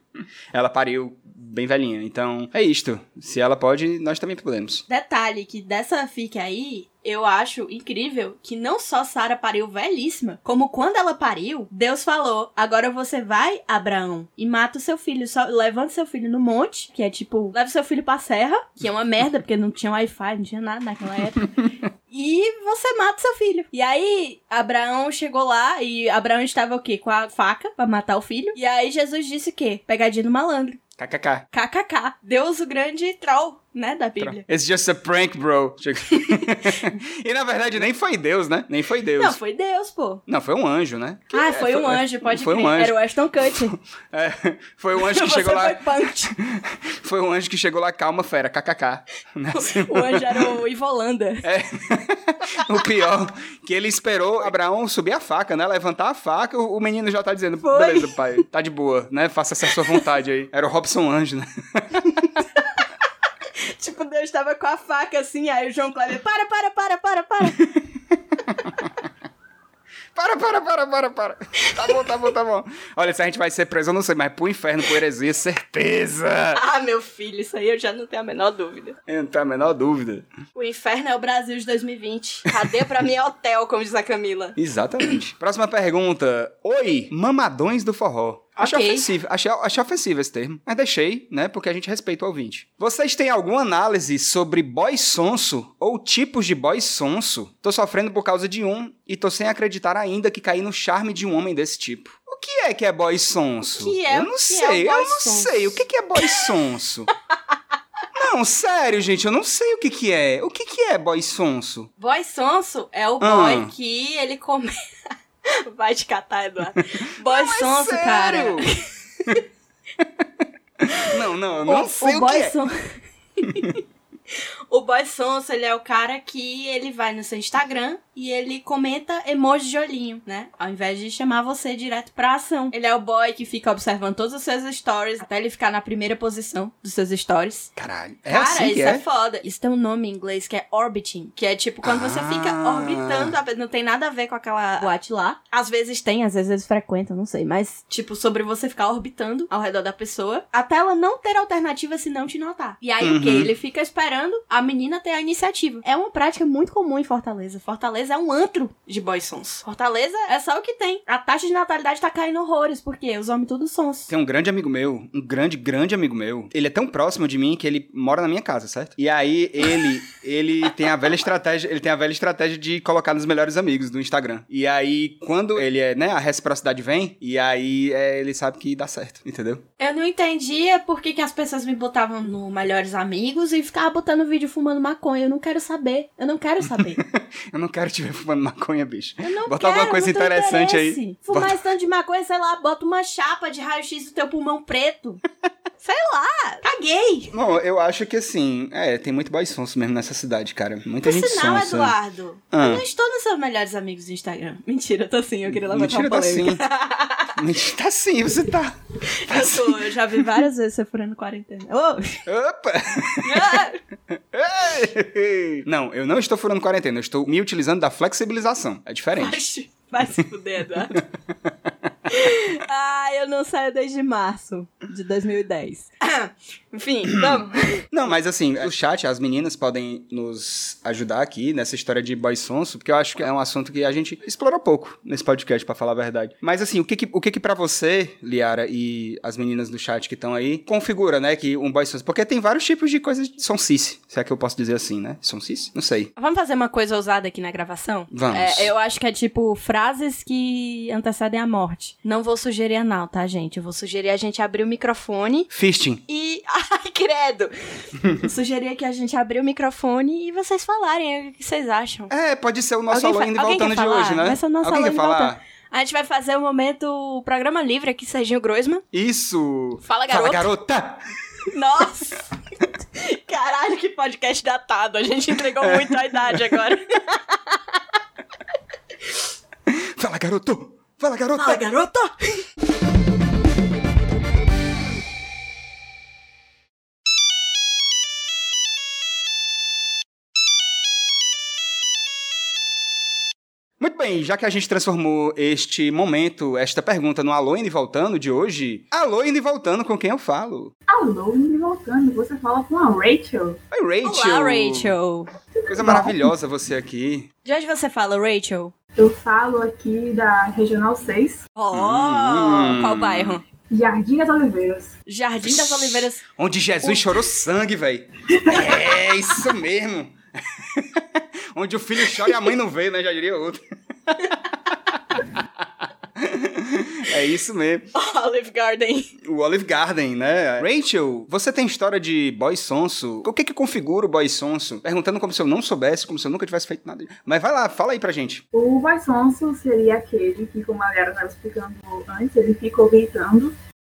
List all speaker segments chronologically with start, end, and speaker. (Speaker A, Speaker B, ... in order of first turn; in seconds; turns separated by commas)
Speaker A: 0.5-4.8, Speaker B: 4.9-30.8, Speaker A: 31.0-31.5, Speaker B: 31.5-34.4, Speaker A: 34.2-39.4, Speaker B: 36.1-36.9, Speaker B: 39.1-40.2, Speaker A: 40.3-43.0, Speaker B: 41.3-43.8, Speaker A: 43.7-50.6, Speaker B: 45.0-46.3, Speaker B: 49.5-51.5, Speaker A: 51.4-62.4, Speaker B: 57.6-58.4, Speaker B: 62.6-62.9, Speaker B: 63.5-67.6, Speaker A: 67.6-68.9, Speaker A: 70.2-76.6, Speaker B: 76.5-79.0, Speaker A: 79.1-80.3, Speaker B: 80.5-84.6, Speaker A: 84.6-107.1, Speaker B: 88.6-89.1, Speaker B: 103.7-106.5, Speaker A: 108.1-111.9, Speaker B: 112.0-114.7, Speaker A: 113.2-113.7, Speaker B: 115.5-119.4, Speaker A: 116.8-118.7, Speaker A: 120.8-122.6, Speaker B: 121.7-137.7, Speaker A: 137.8-139.0, Speaker B: 138.3-164.1, Speaker A: 141.8-143.4, Speaker A: 153.0-153.5, Speaker A: 164.1-179.6, Speaker B: 179.8-187.0, Speaker A: 186.7-191.6, Speaker B: 189.2-195.2, Speaker B: 195.8-197.3, Speaker A: 197.3-201.9, Speaker B: 201.0-207.4, Speaker A: 202.5-202.8, Speaker A: 205.5-206.6, Speaker A: 207.3-210.4, Speaker B: 209.1-212.2, Speaker A: 212.3-219.4, Speaker B: 213.2-213.8, Speaker B: 219.2-221.0, Speaker A: 220.9-221.5, Speaker B: 222.1-227.9, Speaker A: 227.9-246.1, Speaker B: 246.2-255.5, Speaker A: 248.1-248.7, Speaker A: 255.5-256.0, Speaker B: 256.1-262.1, Speaker A: 258.0-258.2, Speaker A: 262.1-265.4, Speaker B: 262.9-268.8, Speaker A: 268.9-271.0, Speaker B: 269.8-270.5, Speaker B: 271.5-277.8, Speaker A: 275.6-276.5, Speaker A: 279.7-281.6, Speaker B: 281.4-282.5, Speaker A: 293.8-300.7, Speaker C: 300.9-303.6, Speaker A: 303.7-304.9, Speaker B: 304.0-305.3, Speaker C: 305.6-306.2, Speaker A: 305.7-307.3, Speaker B: 307.4-308.7, Speaker C: 309.0-311.5, Speaker B: 311.6-313.4, Speaker A: 311.7-313.4, Speaker C: 313.7-315.0, Speaker B: 315.1-316.2, Speaker A: 315.4-327.9, Speaker B: 316.8-317.2, Speaker C: 318.3-318.8, Speaker B: 322.1-322.5, Speaker B: 327.9-329.1, Speaker A: 329.2-338.4, Speaker C: 338.5-343.6